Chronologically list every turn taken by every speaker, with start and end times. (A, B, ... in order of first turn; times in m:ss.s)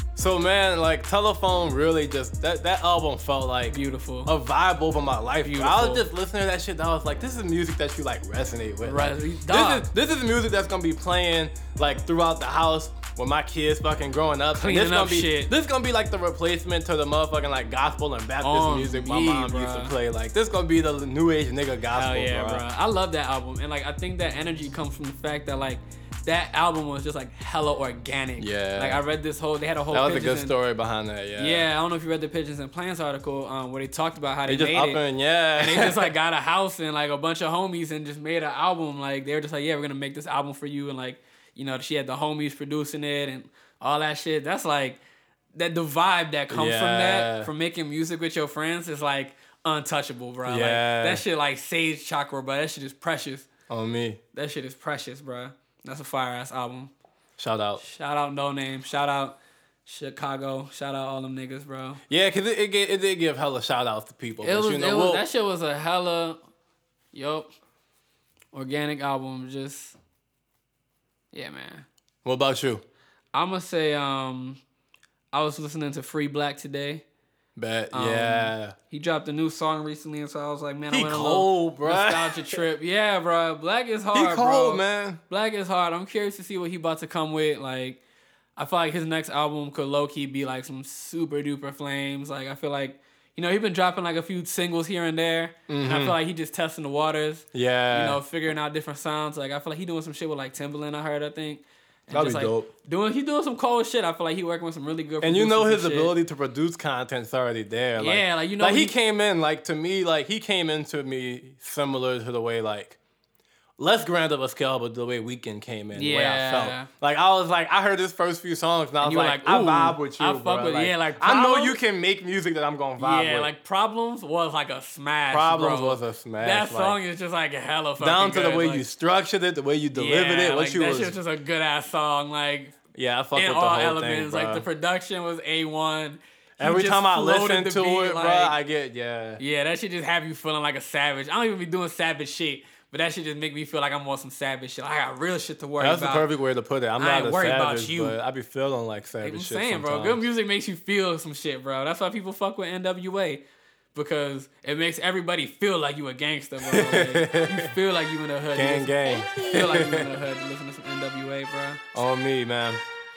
0:00.2-0:22.6 A
0:03.7-0:04.3 B
0:05.4-0:06.0 B
0:08.8-0:09.9 B
0:14.5-0:15.5 B
0:18.4-0:19.9 B
0:21.9-0:30.6 B
0:28.4-0:29.0 A
0:29.9-0:31.7 A
0:31.4-0:35.0 B
0:34.4-0:36.1 A
0:35.6-0:45.0 B
0:45.5-0:53.5 B
0:46.5-0:47.5 A
0:50.4-0:51.2 A
0:53.7-0:54.2 A
0:54.3-0:56.9 B
0:57.4-0:57.8 A
0:57.8-1:02.0 B
1:02.1-1:05.2 A
1:04.4-1:06.4 B
1:07.1-1:07.5 B
1:08.5-1:10.0 B
1:11.3-1:11.9 B
1:12.2-1:12.8 A
1:13.3-1:14.6 B
1:15.3-1:17.0 B
1:17.6-1:18.7 A
1:17.9-1:28.0 B
1:20.9-1:22.6 A
1:24.1-1:25.2 A
1:28.6-1:46.2 B
1:35.7-1:36.2 A
1:37.5-1:38.2 A
1:42.1-1:42.7 A
1:45.2-1:53.0 A
1:48.0-1:49.0 B
1:53.8-2:03.5 A
1:55.9-1:56.9 B
1:59.0-2:01.8 B
2:03.0-2:08.9 B
2:05.3-2:07.0 A
2:08.0-2:11.2 A
2:09.9-2:12.8 B
2:12.9-2:14.6 A
2:13.4-2:18.5 B
2:16.6-2:19.4 A
2:19.4-2:26.3 B
2:25.8-2:30.2 A
2:27.0-2:28.2 B
2:29.2-2:33.4 B
2:33.9-2:42.0 B
2:36.6-2:37.7 A
2:38.5-2:40.1 A
2:41.9-2:42.8 A